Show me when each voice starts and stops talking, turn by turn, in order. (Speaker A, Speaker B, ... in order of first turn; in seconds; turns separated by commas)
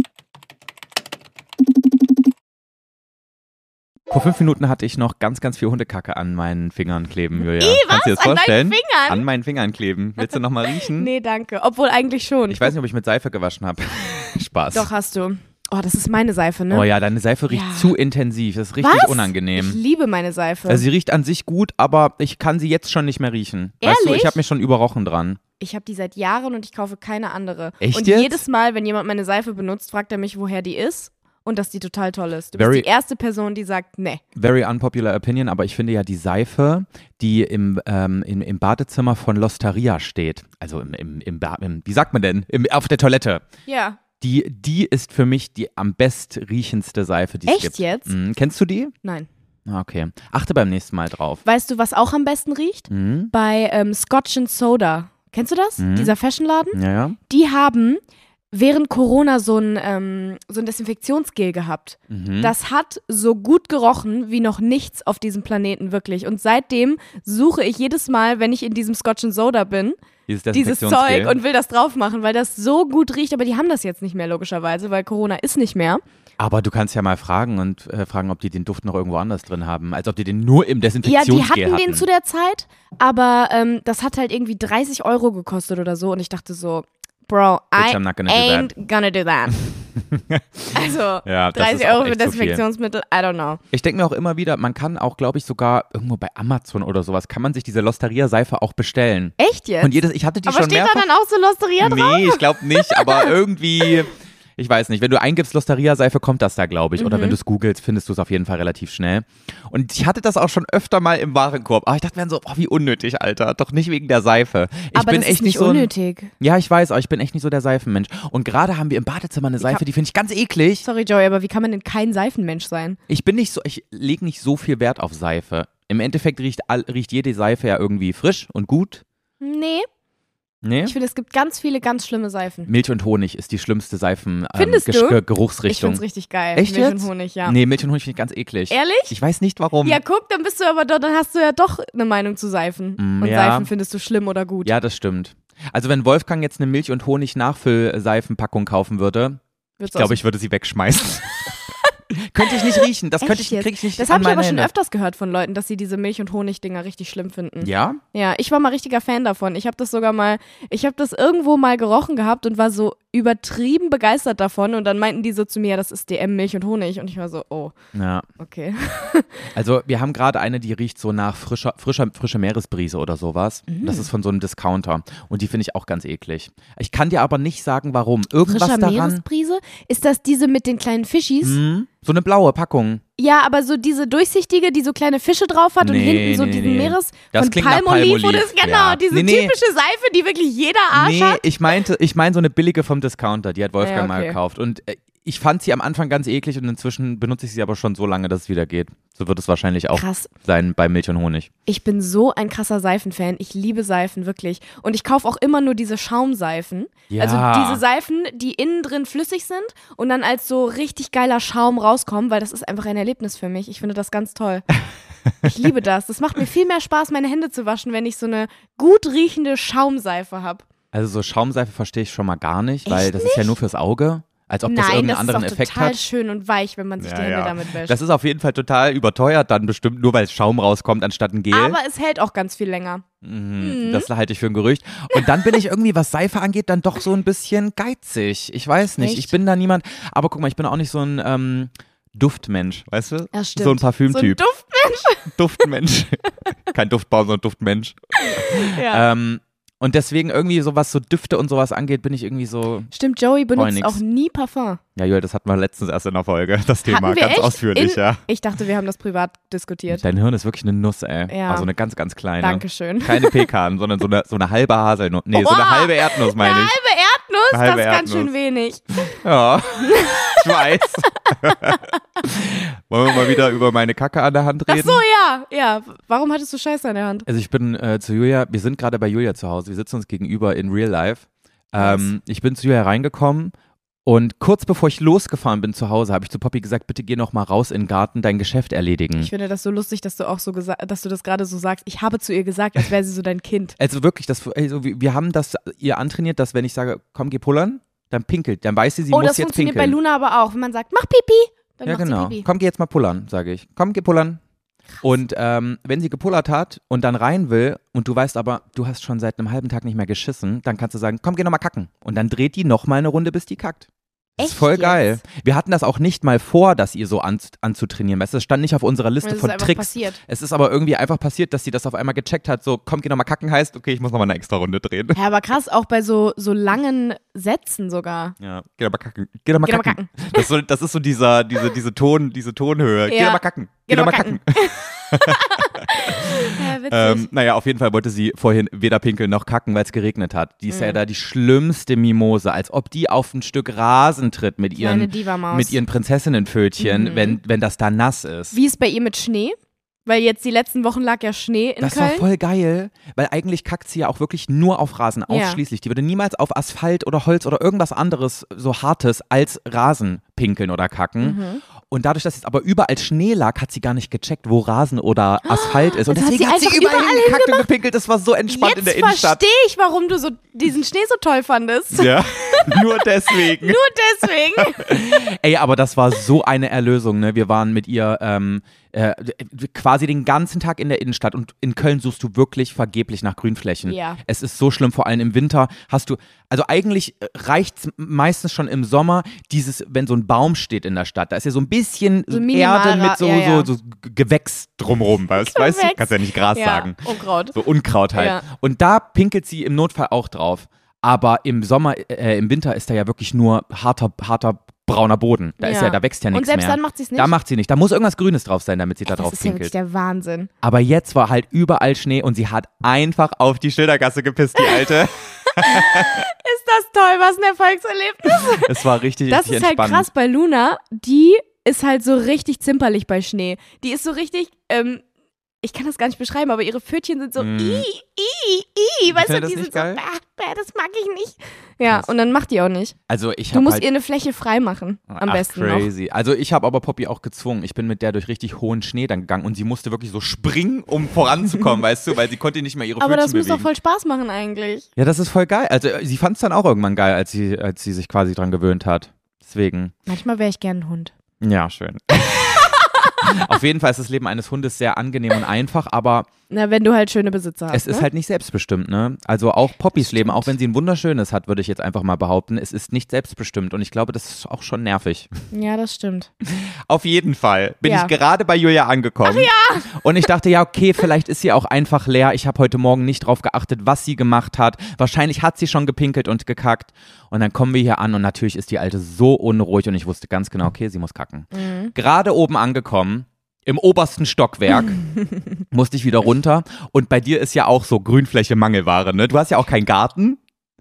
Speaker A: 4.1-11.1, Speaker B: 7.5-9.2, Speaker B: 10.9-12.7, Speaker A: 12.5-14.9, Speaker B: 14.7-16.9, Speaker A: 16.7-19.8, Speaker B: 17.5-17.9, Speaker B: 18.8-20.9, Speaker A: 20.7-25.4, Speaker B: 23.8-24.4, Speaker B: 25.6-34.2, Speaker A: 27.8-28.4, Speaker A: 32.6-32.9, Speaker A: 34.4-43.5, Speaker B: 43.7-44.0, Speaker A: 44.2-48.9, Speaker B: 47.5-48.1, Speaker B: 49.0-49.3, Speaker A: 49.7-51.4, Speaker B: 51.5-70.0, Speaker A: 52.9-53.3, Speaker A: 55.8-56.1, Speaker A: 56.7-57.2, Speaker A: 62.1-62.5, Speaker A: 70.3-71.4, Speaker B: 70.5-76.0, Speaker A: 76.4-82.0, Speaker B: 81.0-89.6, Speaker A: 87.8-88.7, Speaker A: 90.0-90.4, Speaker B: 90.7-93.6, Speaker A: 91.2-92.6, Speaker A: 93.7-101.0, Speaker B: 99.4-103.3, Speaker A: 101.8-120.9, Speaker B: 107.0-107.4, Speaker B: 114.9-116.3, Speaker B: 120.8-123.0, Speaker A: 123.1-129.0, Speaker B: 129.4-129.9, Speaker A: 130.6-130.9, Speaker B: 130.8-132.7, Speaker A: 132.7-136.0, Speaker B: 134.6-137.6, Speaker A: 136.6-140.0, Speaker B: 138.7-139.1, Speaker B: 139.8-144.7, Speaker A: 143.0-143.7, Speaker A: 144.7-151.6, Speaker B: 149.8-150.2, Speaker A: 152.1-154.7, Speaker B: 152.5-167.7, Speaker A: 157.6-158.0, Speaker A: 167.9-168.3, Speaker B: 168.4-169.5, Speaker A: 169.5-179.2, Speaker B: 173.7-174.1, Speaker B: 178.4-181.6, Speaker A: 181.4-183.0, Speaker B: 183.2-191.4, Speaker A: 185.8-189.5, Speaker A: 190.9-201.5, Speaker B: 193.8-194.4, Speaker B: 199.9-200.3, Speaker B: 201.7-214.7, Speaker A: 207.1-207.8, Speaker B: 215.4-220.6, Speaker A: 220.9-226.0, Speaker B: 222.9-223.6, Speaker B: 224.7-228.0, Speaker A: 227.0-231.8, Speaker B: 231.5-233.0, Speaker A: 233.2-244.4, Speaker B: 233.6-234.1, Speaker B: 239.0-239.3, Speaker B: 243.3-245.3, Speaker A: 245.3-252.9, Speaker B: 248.2-249.1, Speaker B: 252.9-254.8, Speaker A: 253.6-254.0, Speaker A: 255.0-258.2, Speaker B: 256.9-260.0, Speaker A: 259.9-266.8, Speaker B: 261.3-261.7, Speaker B: 262.4-263.5, Speaker B: 265.3-269.1, Speaker A: 267.5-268.3, Speaker A: 269.1-275.0, Speaker B: 269.8-270.4, Speaker B: 271.2-271.8, Speaker B: 274.7-277.3, Speaker A: 277.3-283.5, Speaker B: 281.8-282.1, Speaker A: 284.1-289.3, Speaker B: 289.2-293.8, Speaker A: 293.8-300.0, Speaker B: 299.1-302.4, Speaker A: 301.8-304.4, Speaker A: 305.0-313.9, Speaker B: 314.4-315.2, Speaker A: 314.4-325.2, Speaker B: 319.2-320.2, Speaker B: 325.1-328.4, Speaker A: 328.4-348.6, Speaker B: 329.6-330.5, Speaker B: 333.1-337.3, Speaker B: 340.7-341.0, Speaker B: 344.8-345.8, Speaker B: 346.8-347.4, Speaker B: 348.5-352.3, Speaker A: 351.8-369.4, Speaker B: 355.3-355.6, Speaker B: 361.2-361.6, Speaker B: 365.4-367.7, Speaker B: 368.5-375.1, Speaker A: 371.9-373.8, Speaker A: 374.6-397.0, Speaker B: 383.9-384.2, Speaker B: 392.3-393.7, Speaker B: 395.4-397.6, Speaker A: 397.5-409.7, Speaker B: 398.1-398.4, Speaker B: 405.6-407.3, Speaker B: 409.1-410.5, Speaker A: 410.6-416.2, Speaker B: 415.5-418.7, Speaker A: 418.4-420.1, Speaker B: 419.3-425.0, Speaker B: 425.6-433.0, Speaker A: 427.4-427.9, Speaker A: 429.1-430.0, Speaker A: 433.1-433.9, Speaker B: 433.5-435.9, Speaker A: 435.1-443.7, Speaker B: 443.0-444.9, Speaker A: 445.0-449.9, Speaker B: 450.1-451.1, Speaker A: 451.4-456.3, Speaker B: 452.4-453.4, Speaker B: 456.5-458.1, Speaker A: 457.7-465.3, Speaker B: 460.0-460.5, Speaker B: 465.5-466.3, Speaker A: 466.4-485.0, Speaker B: 467.9-468.1, Speaker B: 469.2-469.9, Speaker B: 481.5-481.9, Speaker A: 485.7-490.4